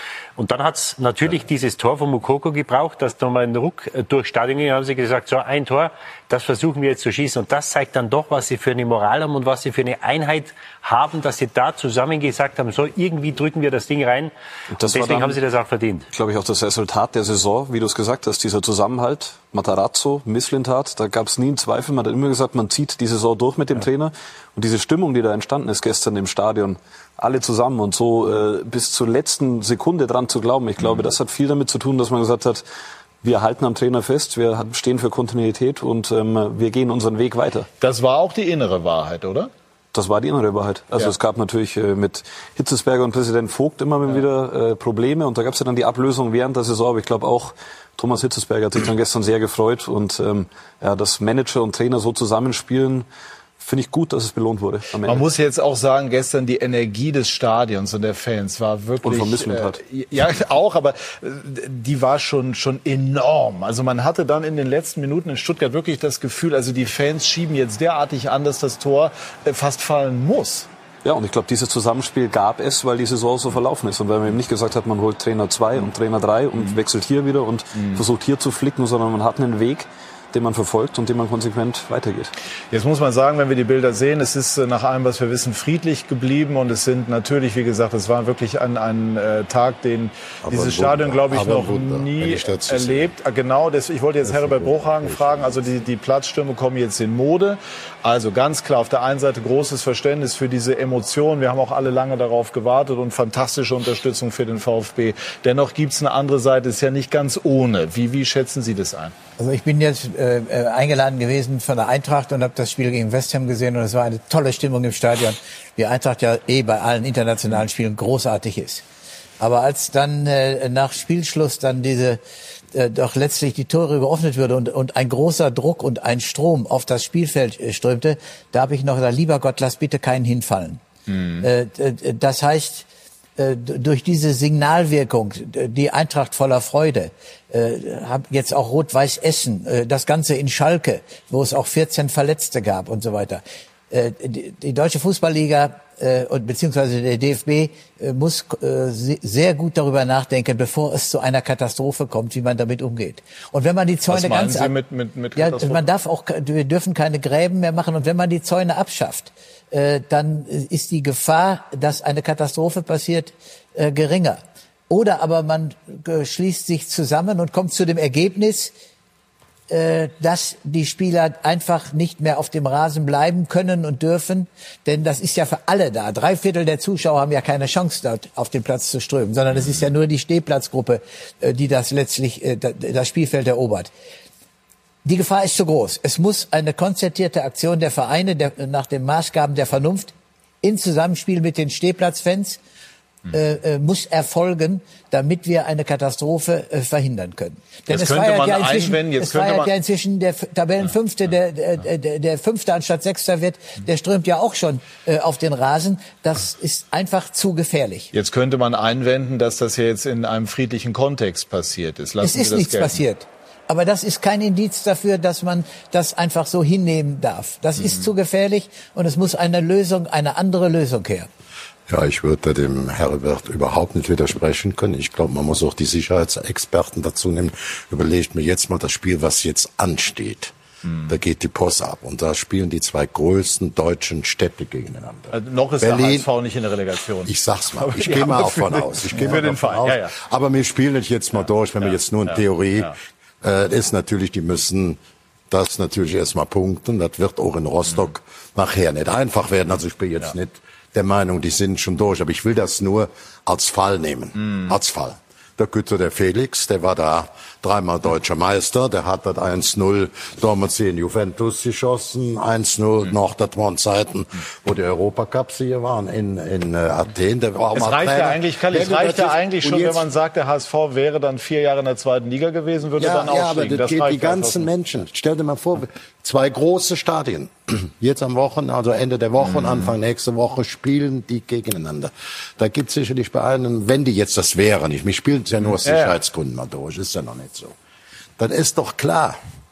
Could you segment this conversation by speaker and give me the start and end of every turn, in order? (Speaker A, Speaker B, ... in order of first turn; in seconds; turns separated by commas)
Speaker A: 0.4-16.1, Speaker B: 14.8-15.4, Speaker B: 16.1-32.6, Speaker B: 33.2-37.7, Speaker C: 37.8-39.5, Speaker B: 39.9-53.1, Speaker B: 53.6-55.3, Speaker C: 55.0-70.7, Speaker B: 59.0-59.8, Speaker B: 71.0-82.3, Speaker C: 77.8-78.0, Speaker C: 82.7-109.2, Speaker D: 90.5-93.1, Speaker D: 94.2-95.6, Speaker E: 109.4-118.8, Speaker E: 119.4-122.2, Speaker E: 122.7-130.8, Speaker C: 131.1-131.5, Speaker E: 131.4-132.9, Speaker E: 133.4-154.8, Speaker C: 154.1-155.9, Speaker E: 155.4-168.7, Speaker E: 169.7-183.9, Speaker E: 185.0-192.6, Speaker E: 193.3-208.1, Speaker C: 197.9-199.7, Speaker C: 208.1-213.0, Speaker E: 212.2-221.3, Speaker D: 221.9-230.6, Speaker D: 231.1-236.3, Speaker C: 235.3-240.1, Speaker D: 237.3-245.0, Speaker C: 242.3-242.9, Speaker D: 245.5-270.1, Speaker C: 267.7-274.7, Speaker D: 273.0-287.8, Speaker C: 279.5-279.9, Speaker C: 285.8-286.1, Speaker D: 288.4-289.4